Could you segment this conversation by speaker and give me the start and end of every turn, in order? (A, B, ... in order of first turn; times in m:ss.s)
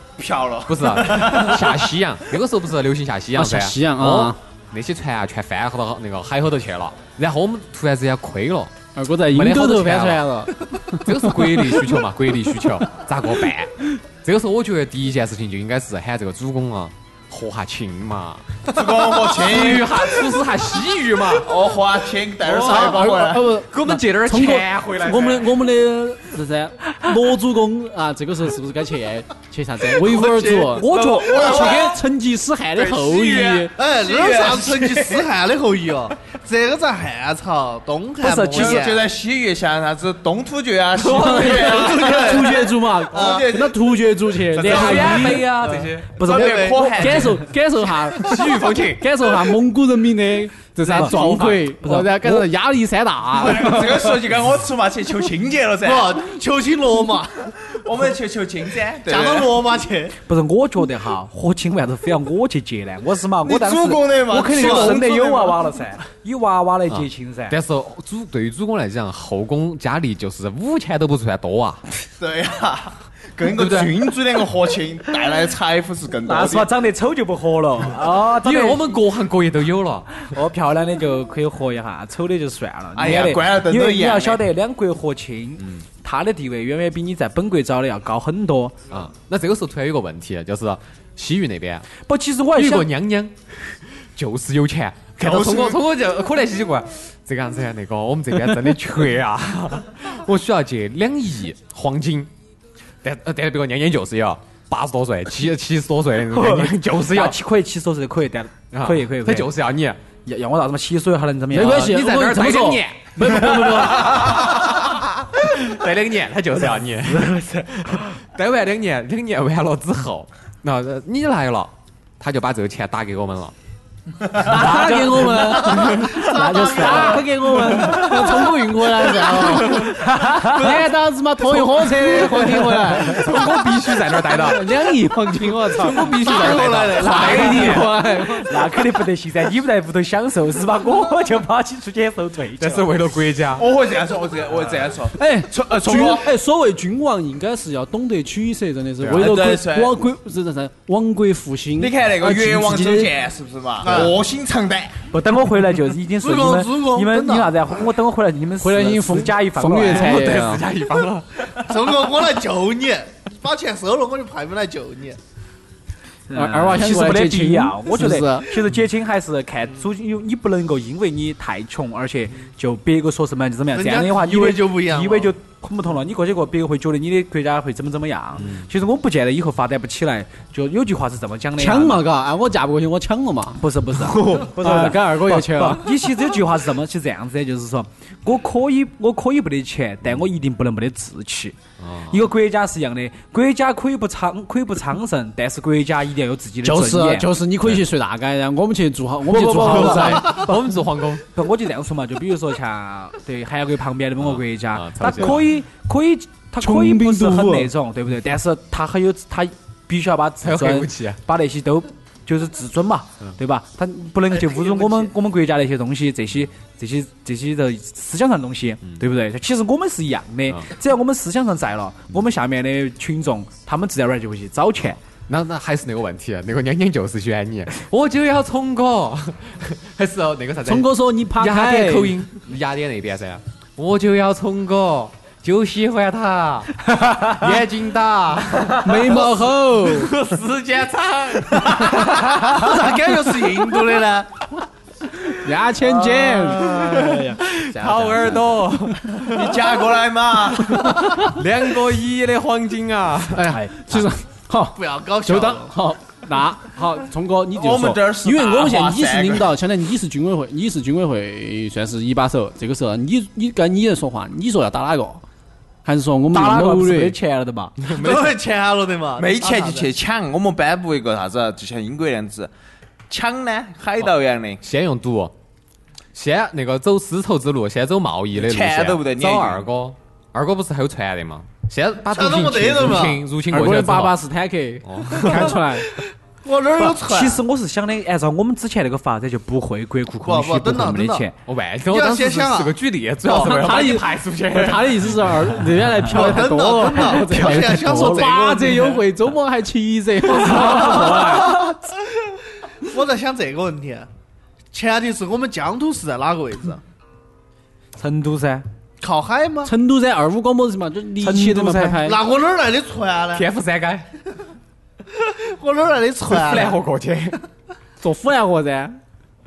0:00.2-0:01.8 A
0:00.7-0:08.7 B
0:03.4-0:04.4 C
0:09.0-0:11.4 C
0:09.3-0:10.2 B
0:10.9-0:21.6 B
0:18.7-0:20.3 A
0:21.4-0:23.5 A
0:22.4-0:25.6 B
0:22.6-0:33.7 C
0:30.1-0:32.0 A
0:30.7-0:31.7 D
0:32.8-0:35.3 A
0:33.7-0:39.1 E
0:38.2-0:38.8 D
0:38.5-0:43.9 A
0:41.0-0:45.4 C
0:41.7-0:43.6 E
0:44.4-0:47.5 A
0:44.6-0:46.2 B
0:44.7-0:46.9 D
0:46.2-0:47.1 E
0:46.9-0:54.1 C
0:48.1-0:49.1 B
0:50.8-0:51.7 B
0:50.9-0:51.2 D
0:51.8-0:52.4 D
0:53.3-0:56.2 A
0:55.8-0:57.5 E
0:57.6-0:59.6 A
0:59.0-1:00.2 E
1:00.3-1:07.6 D
1:03.4-1:05.6 A
1:04.5-1:05.1 E
1:06.9-1:11.8 B
1:12.2-1:16.7 A
1:13.4-1:13.9 B
1:16.3-1:19.0 D
1:18.4-1:20.3 B
1:20.2-1:28.8 D
1:23.0-1:24.4 A
1:25.6-1:25.8 B
1:28.9-1:31.9 B
1:32.1-1:32.9 D
1:32.6-1:42.3 B
1:35.4-1:35.7 A
1:43.0-1:47.4 B
1:46.3-1:49.5 D
1:48.7-1:50.0 B
1:50.2-1:52.0 D
1:51.5-1:54.3 C
1:51.5-2:03.5 B
1:57.1-1:58.2 D
2:04.4-2:13.4 C
2:04.6-2:05.0 B
2:04.7-2:05.1 D
2:05.5-2:05.9 B
2:05.9-2:07.2 E
2:06.3-2:08.0 D
2:09.0-2:09.9 E
2:09.4-2:09.9 B
2:09.9-2:10.6 D
2:11.6-2:12.9 E
2:12.0-2:14.6 B
2:14.2-2:18.6 C
2:15.7-2:18.0 B
2:15.9-2:17.8 E
2:18.4-2:23.0 D
2:22.6-2:23.7 B
2:23.6-2:26.3 A
2:25.2-2:33.1 C
2:29.0-2:29.3 B
2:29.1-2:30.0 A
2:31.8-2:35.0 A
2:33.8-2:34.2 E
2:35.1-2:40.4 D
2:36.2-2:37.6 E
2:38.6-2:40.6 C
2:39.8-2:41.6 B
2:41.6-2:45.2 E
2:46.3-3:02.0 D
2:46.3-2:48.6 C
2:53.7-2:55.3 E
2:58.4-2:58.7 B
3:01.6-3:03.6 C
3:03.6-3:11.6 D
3:04.3-3:05.9 C
3:11.8-3:12.3 B
3:12.1-3:17.3 D
3:16.6-3:20.3 C
3:19.3-3:45.0 D
3:19.5-3:21.3 B
3:24.2-3:25.6 B
3:26.6-3:27.7 C
3:30.4-3:31.2 B
3:45.3-4:02.3 B
3:50.6-3:52.2 C
3:57.0-3:57.3 D
3:58.8-4:00.1 C
4:02.3-4:04.3 E
4:05.3-4:06.7 C
4:05.8-4:08.6 D
4:06.4-4:09.6 B
4:09.3-4:10.7 A
4:10.7-4:14.1 B
4:10.8-4:11.3 C
4:13.3-4:25.2 C
4:14.8-4:15.7 E
4:17.5-4:19.5 A
4:25.8-4:27.2 C
4:26.3-4:27.8 D
4:27.8-4:28.3 B
4:27.8-4:29.9 E
4:29.2-4:32.5 A
4:33.1-4:34.6 A
4:34.6-4:35.3 B
4:36.1-4:44.2 B
4:38.4-4:39.6 A
4:42.1-4:43.3 E
4:43.5-4:45.9 C
4:44.8-4:45.7 B
4:46.4-4:47.4 E
4:46.8-4:51.4 D
4:50.2-4:51.3 E
4:51.4-4:55.6 B
4:51.9-4:53.8 E
4:53.3-5:01.6 C
4:56.1-4:59.0 E
4:57.0-4:58.3 D
5:00.7-5:01.0 D
5:00.8-5:01.9 E
5:02.8-5:04.1 E
5:04.7-5:06.8 E
5:08.0-5:08.6 D
5:09.0-5:09.7 E
5:09.6-5:12.2 C
5:11.2-5:12.0 D
5:12.0-5:13.5 E
5:13.3-5:14.1 B
5:15.2-5:16.8 E
5:16.2-5:17.4 B
5:18.0-5:19.0 C